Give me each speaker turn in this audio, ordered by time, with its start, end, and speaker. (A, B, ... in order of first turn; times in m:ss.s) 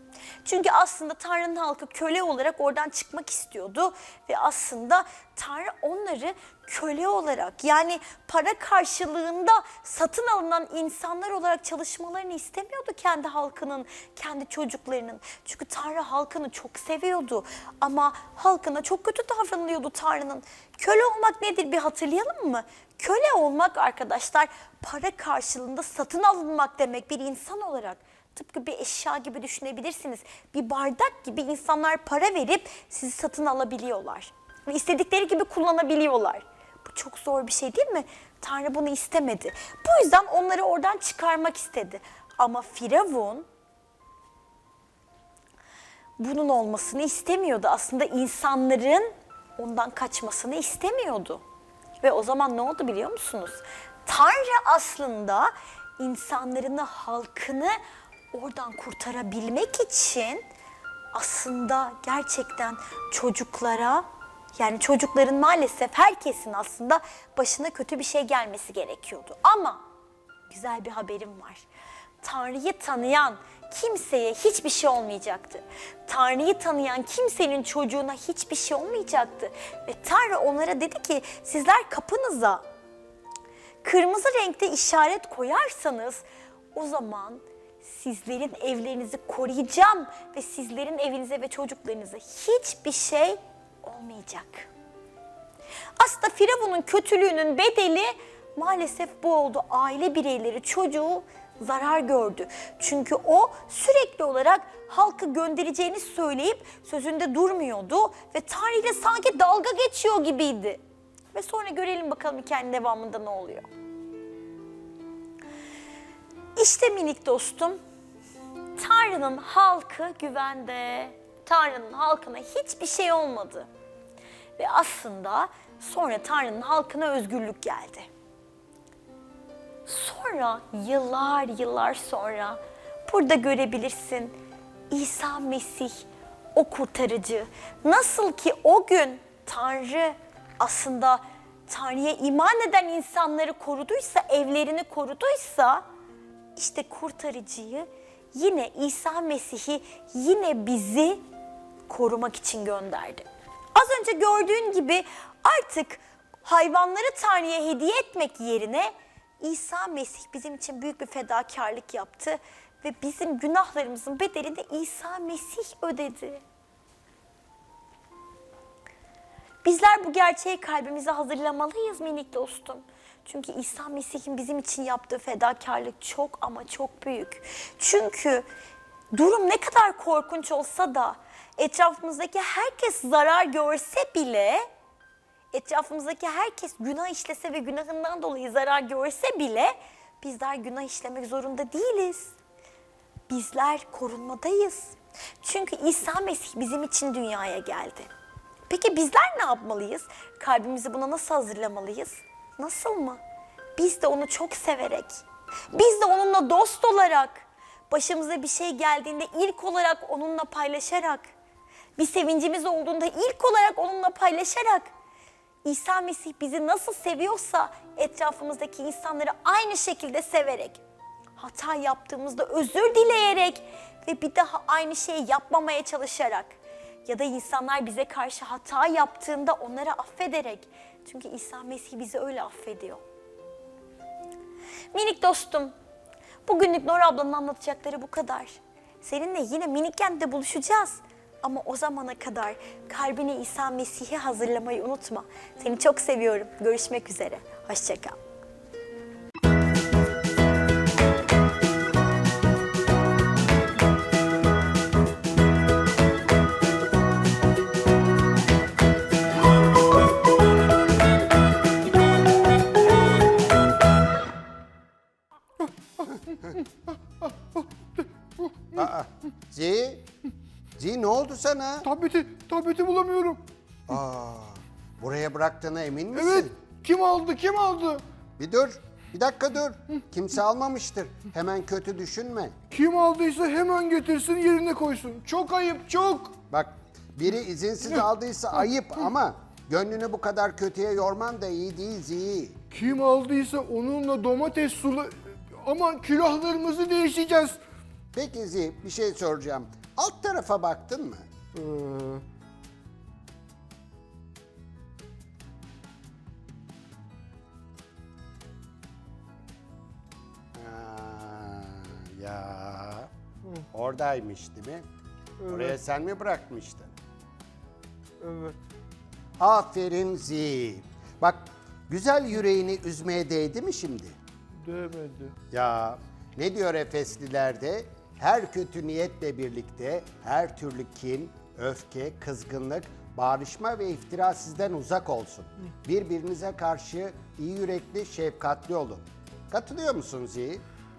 0:00.4-0:43.5 A
0:46.2-0:51.4 A
0:52.0-0:57.8 A
0:58.3-1:00.4 A
1:01.1-1:09.8 A
1:10.5-1:11.7 A
1:12.2-1:22.6 A
1:23.8-1:34.7 A
1:36.0-1:50.8 A
1:51.3-1:53.7 A
1:56.6-1:57.8 A
1:58.8-2:03.7 A
2:04.6-2:08.1 A
2:09.9-2:14.4 A
2:14.9-2:25.8 A
2:26.6-2:31.2 A
2:31.9-2:46.4 A
2:49.6-2:58.5 A
2:59.1-3:04.7 A
3:05.5-3:12.4 A
3:13.3-3:18.1 A
3:18.7-3:23.2 A
3:23.8-3:31.3 A
3:32.0-3:34.9 A
3:35.6-3:40.8 A
3:41.4-3:46.5 A
3:47.1-3:53.0 A
3:54.9-3:55.7 A
3:56.5-4:08.2 A
4:25.6-4:28.8 B
4:28.8-4:30.1 C
4:30.8-4:31.9 C
4:31.8-4:33.4 B
4:33.9-4:36.5 C
4:36.2-4:38.0 B
4:38.4-4:42.6 C
4:42.7-4:46.4 B
4:46.5-4:52.6 C
4:52.7-4:57.6 B
4:58.1-5:01.3 C
5:01.5-5:02.2 B
5:10.5-5:13.1 C
5:13.7-5:14.9 C
5:15.4-5:15.7 B
5:15.5-5:16.9 C
5:18.2-5:18.6 B
5:19.4-5:24.2 C
5:24.6-5:25.4 B
5:25.5-5:40.6 C